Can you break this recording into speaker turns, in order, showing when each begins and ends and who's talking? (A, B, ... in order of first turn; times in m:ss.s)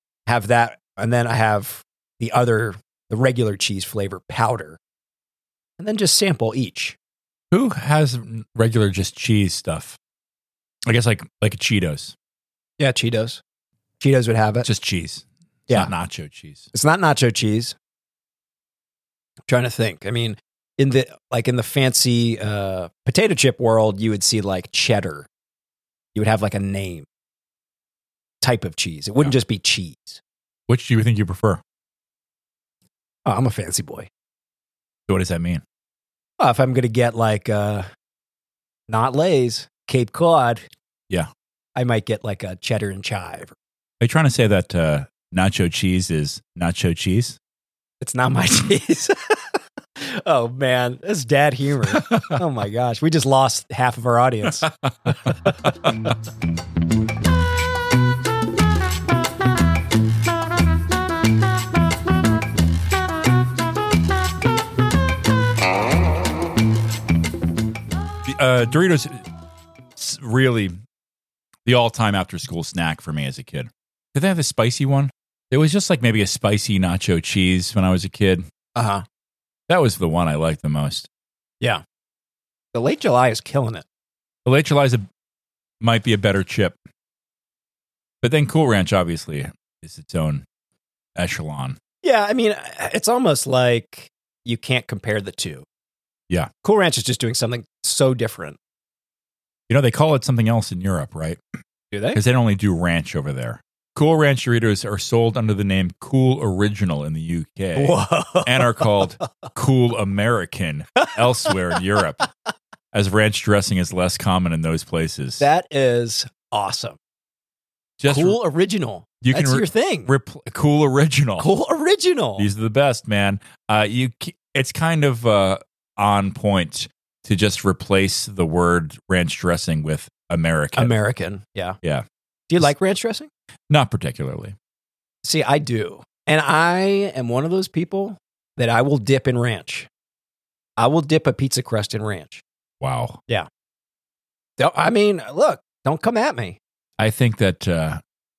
0:00.3-0:04.8 A
0:05.8-0:07.0 A
0:07.5-0:10.0 B
0:10.8-0:12.1 B
0:12.8-0:13.4 A
0:14.0-0:14.7 A
0:14.6-0:16.7 B
0:16.7-0:17.7 A
0:19.5-0:25.3 A
0:26.1-0:27.1 A
0:28.4-0:30.2 A
0:30.7-0:31.6 B
0:33.2-0:34.1 A
0:35.1-0:35.6 B
0:36.4-0:37.9 A
0:38.9-0:40.6 A
0:41.8-0:43.6 A
0:44.0-0:47.4 B
0:48.0-0:54.7 A
0:52.0-0:52.3 B
0:55.0-0:55.9 B
1:08.2-1:09.2 B
1:10.0-1:10.8 B
1:11.6-1:18.4 B
1:18.8-1:19.0 A
1:19.7-1:21.1 B
1:22.7-1:23.8 A
1:24.4-1:25.0 B
1:25.8-1:26.8 B
1:28.2-1:30.4 B
1:31.2-1:31.8 B
1:32.0-1:35.6 A
1:36.6-1:38.6 A
1:39.7-1:41.4 B
1:41.9-1:42.2 A
1:42.1-1:52.3 B
1:47.8-1:49.2 A
1:51.0-1:51.8 A
1:52.9-1:55.4 B
1:55.4-1:57.0 A
1:58.0-1:58.4 B
1:58.1-2:00.1 A
1:59.2-2:01.5 B
2:01.4-2:02.5 A
2:02.4-2:10.9 B
2:10.8-2:11.8 A
2:12.5-2:13.3 A
2:13.7-2:14.6 B
2:15.2-2:19.9 A
2:20.8-2:22.4 A
2:22.8-2:23.2 B
2:24.6-2:26.6 A
2:27.0-2:28.0 B